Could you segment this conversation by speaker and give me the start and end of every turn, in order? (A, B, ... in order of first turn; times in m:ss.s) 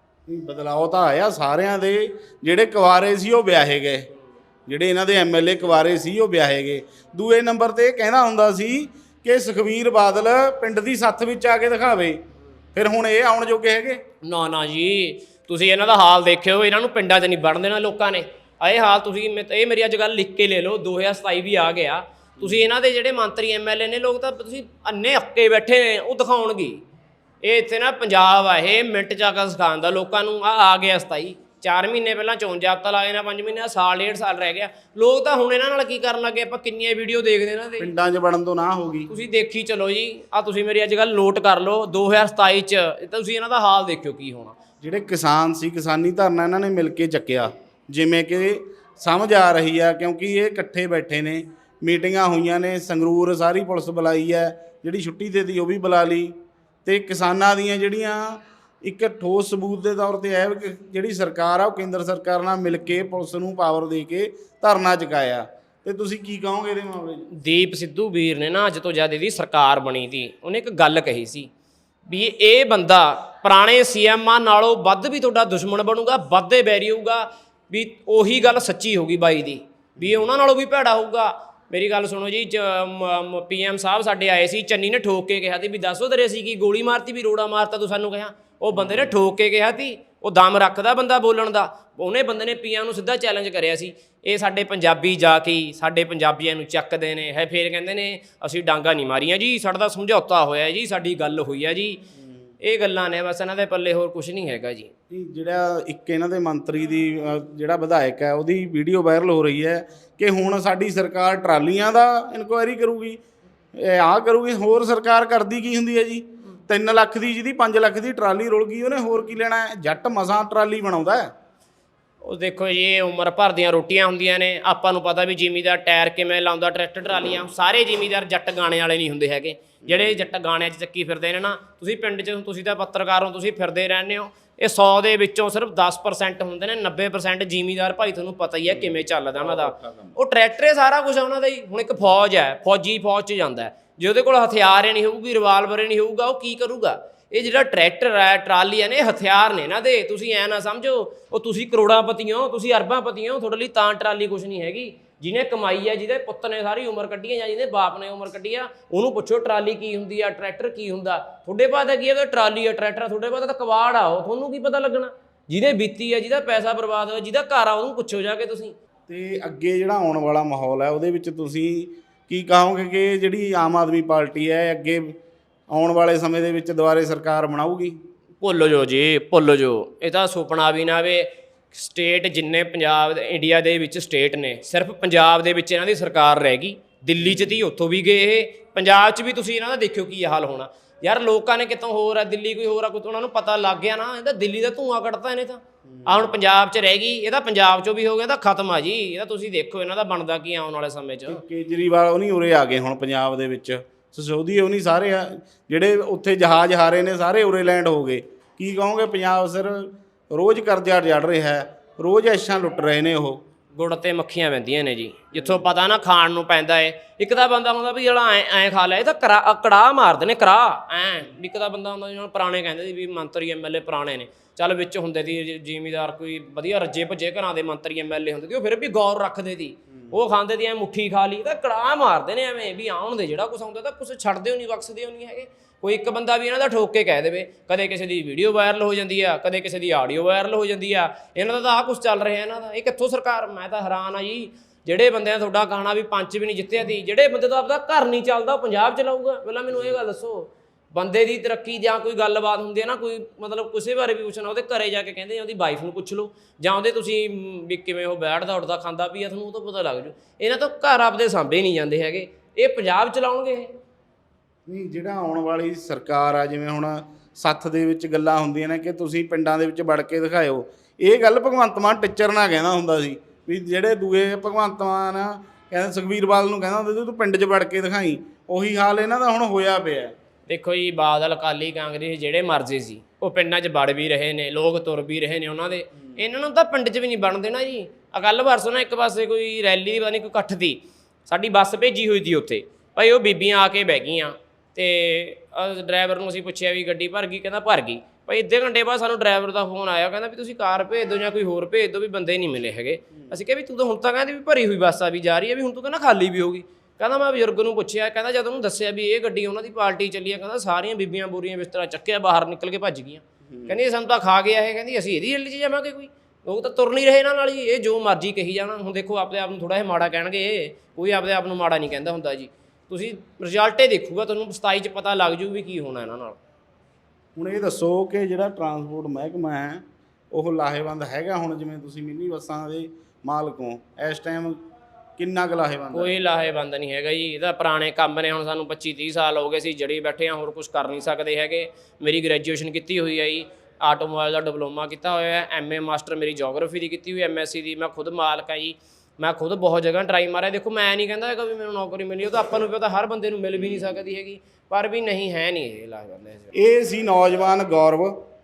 0:00.3-0:04.1 A
0:04.7-0:12.2 A
0:12.7-0:14.0 A
0:14.2-0:26.8 B
0:27.4-0:37.9 B
0:37.8-0:39.1 A
0:39.1-0:44.6 B
0:44.8-0:56.3 A
0:56.8-1:07.3 A
1:07.3-1:11.5 B
1:12.1-1:42.0 B
1:20.0-1:20.3 A
1:28.8-1:29.2 A
1:42.6-1:44.9 B
1:45.1-1:53.2 A
1:53.7-2:01.3 A
2:02.2-2:48.8 B
2:09.9-2:10.3 A
2:18.7-2:20.2 A
2:49.1-2:55.2 A
2:55.7-2:58.0 A
2:58.4-3:21.4 B
3:07.2-3:07.6 A
3:15.9-3:16.3 A
3:21.3-3:33.4 A
3:33.7-4:23.7 B
3:35.3-3:35.7 A
4:09.7-4:10.0 A
4:24.7-4:40.1 A
4:40.5-5:26.4 B
5:13.5-5:13.8 A
5:27.4-5:34.6 A
5:35.2-5:36.2 A
5:35.9-5:56.5 B
5:53.6-5:54.0 A
5:56.5-5:58.2 A